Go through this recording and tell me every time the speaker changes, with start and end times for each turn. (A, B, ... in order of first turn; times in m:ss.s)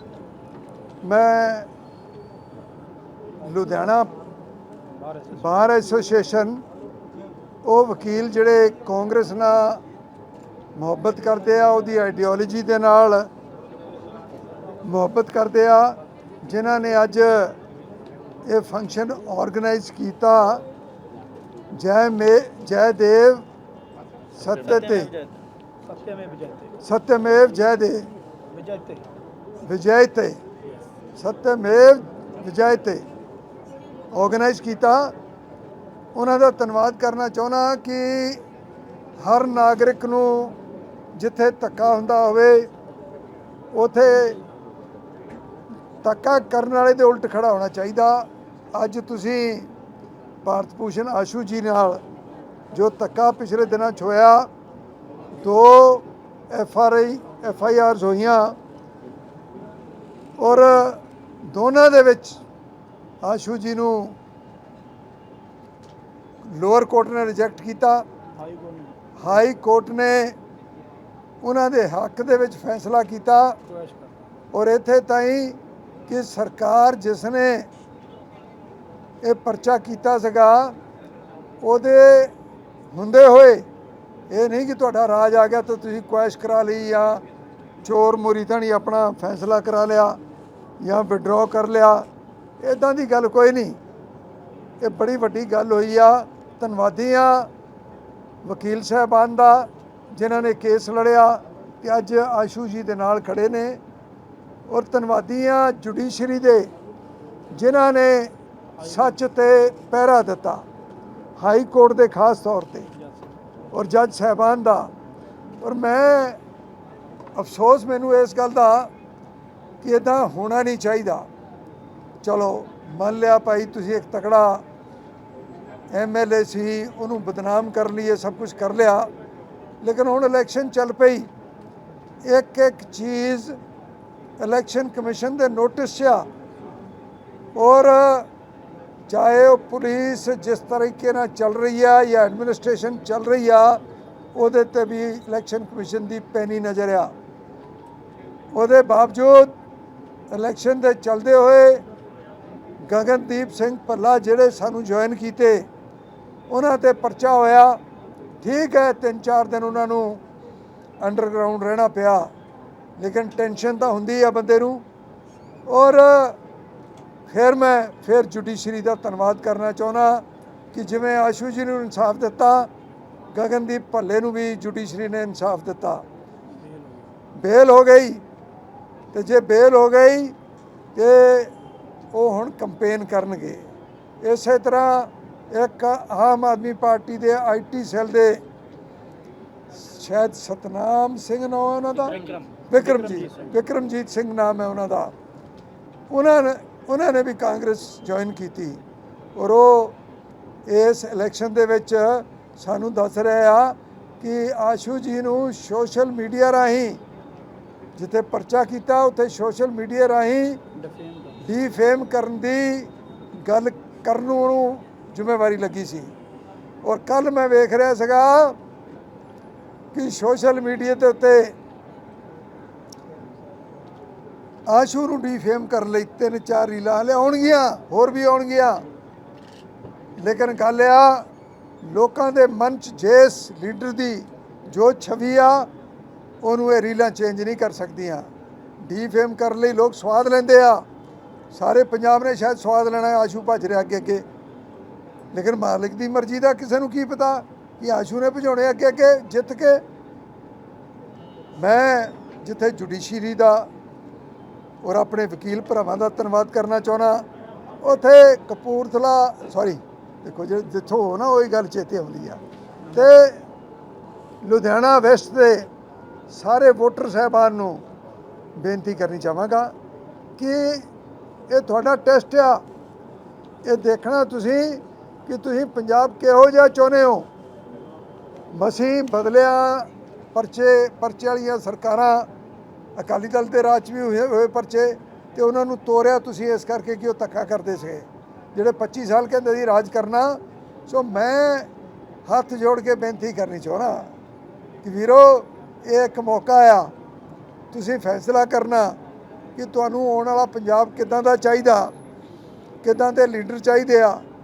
0:01.0-0:01.7 A
0:03.4-0:04.1 A
0:05.0-0:05.4 B
0:05.3-0:06.6 A
0:07.6-0:09.8 A
0:10.8-0:13.3 A
0:14.8-0:17.6 A
0:18.5-0:20.6 A
0:21.7-0:23.4 A
0:24.4-0:25.1 A
0:25.9-0:26.7 B
0:26.8-0:28.1 A
0:28.5-0:29.0 B
0:29.6-0:30.4 A
0:31.2-0:33.1 A
0:34.1-0:35.2 A
0:36.2-0:38.4 A
0:39.2-0:40.6 A
0:41.2-0:42.7 A
0:43.7-0:44.4 A
0:46.0-0:49.7 A
0:50.4-0:52.0 A
0:52.7-0:54.5 A
0:55.4-0:58.6 A
1:00.4-1:02.4 A
1:03.2-1:04.2 A
1:06.4-1:08.0 A
1:08.4-1:08.9 B
1:09.2-1:10.4 A
1:11.4-1:13.6 A
1:13.7-1:14.1 B
1:14.5-1:17.7 A
1:19.2-1:20.8 A
1:21.6-1:22.3 A
1:22.9-1:23.7 A
1:24.3-1:27.2 A
1:27.8-1:30.2 A
1:30.8-1:32.1 A
1:32.6-1:33.8 A
1:34.8-1:37.5 A
1:38.4-1:43.8 A
1:44.7-1:46.7 A
1:47.5-1:50.6 A
1:51.4-1:52.9 A
1:53.7-1:54.9 A
1:55.6-1:56.4 A
1:57.4-1:58.9 A
1:59.8-2:01.3 A
2:02.2-2:04.6 A
2:05.9-2:09.1 A
2:09.8-2:11.3 A
2:12.2-2:13.6 A
2:14.4-2:16.3 A
2:17.6-2:18.3 A
2:19.1-2:23.8 A
2:24.4-2:27.1 A
2:28.5-2:29.5 A
2:30.3-2:31.8 A
2:32.9-2:35.7 A
2:36.5-2:37.8 A
2:38.4-2:40.2 A
2:41.0-2:42.3 A
2:43.0-2:44.8 A
2:45.7-2:46.4 A
2:47.3-2:52.7 A
2:53.3-2:56.0 A
2:57.4-2:58.2 A
2:59.1-3:00.4 A
3:01.0-3:01.5 A
3:02.1-3:03.7 A
3:04.2-3:08.4 A
3:09.7-3:15.1 A
3:12.2-3:13.5 B
3:16.1-3:18.8 A
3:19.4-3:20.0 A
3:20.7-3:27.0 A
3:28.0-3:30.6 A
3:30.8-3:31.4 B
3:31.4-3:36.1 A
3:36.8-3:38.6 A
3:39.9-3:41.6 A
3:44.7-3:48.8 A
3:50.2-3:51.3 A
3:51.8-3:55.7 A
3:56.4-3:58.3 A
3:58.8-4:00.8 A
4:01.5-4:04.2 A
4:05.3-4:09.8 A
4:11.6-4:13.7 A
4:14.8-4:17.3 A
4:17.8-4:22.4 A
4:22.9-4:23.4 A
4:24.4-4:25.7 A
4:26.3-4:27.8 A
4:28.6-4:29.7 A
4:30.4-4:30.9 A
4:31.5-4:32.6 A
4:33.6-4:37.3 A
4:38.5-4:42.3 A
4:43.0-4:51.7 A
4:52.3-4:54.1 A
4:54.8-4:56.9 A
4:57.7-4:59.0 A
4:59.6-5:01.9 A
5:02.8-5:04.2 A